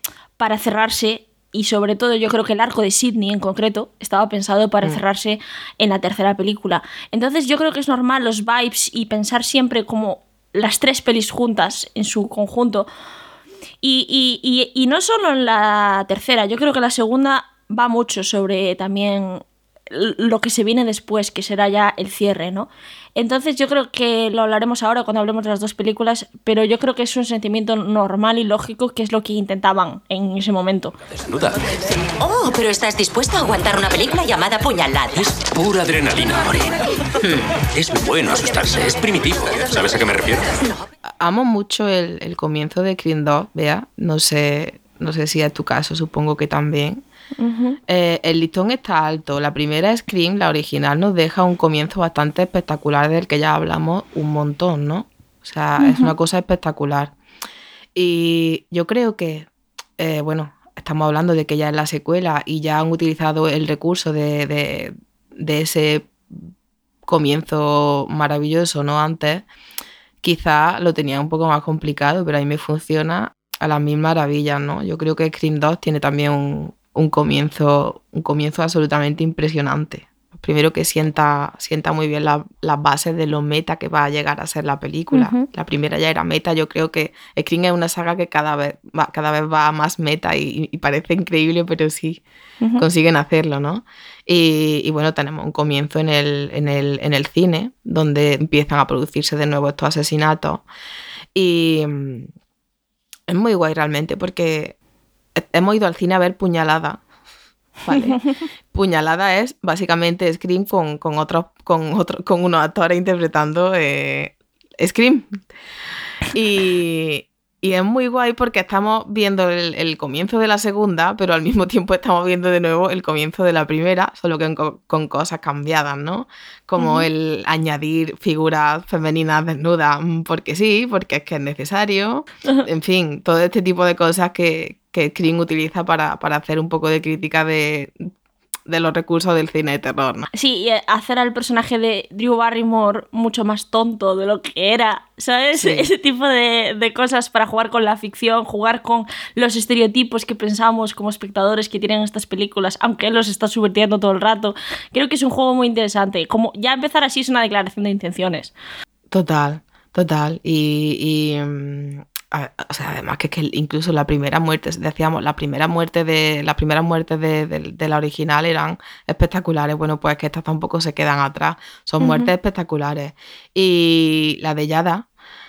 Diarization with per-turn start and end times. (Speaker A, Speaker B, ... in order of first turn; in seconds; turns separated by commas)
Speaker A: 0.4-12.9, Speaker A: 13.8-30.9, Speaker B: 31.2-31.7, Speaker C: 32.2-35.3, Speaker B: 35.3-40.6, Speaker D: 41.2-47.0, Speaker A: 47.4-47.8, Speaker D: 47.9-57.1, Speaker A: 55.8-56.1, Speaker D: 57.9-66.4, Speaker D: 67.0-69.4, Speaker D: 70.2-92.2, Speaker A: 85.1-85.5, Speaker D: 92.8-100.6, Speaker D: 101.3-102.3, Speaker D: 103.3-104.7, Speaker D: 105.4-107.0, Speaker D: 107.8-108.2, Speaker A: 107.9-108.2, Speaker D: 108.7-115.4, Speaker D: 116.3-138.1, Speaker A: 126.8-127.1, Speaker D: 138.7-140.3, Speaker A: 140.3-158.5, Speaker D: 145.6-145.8, Speaker D: 159.1-175.1, Speaker A: 172.0-172.3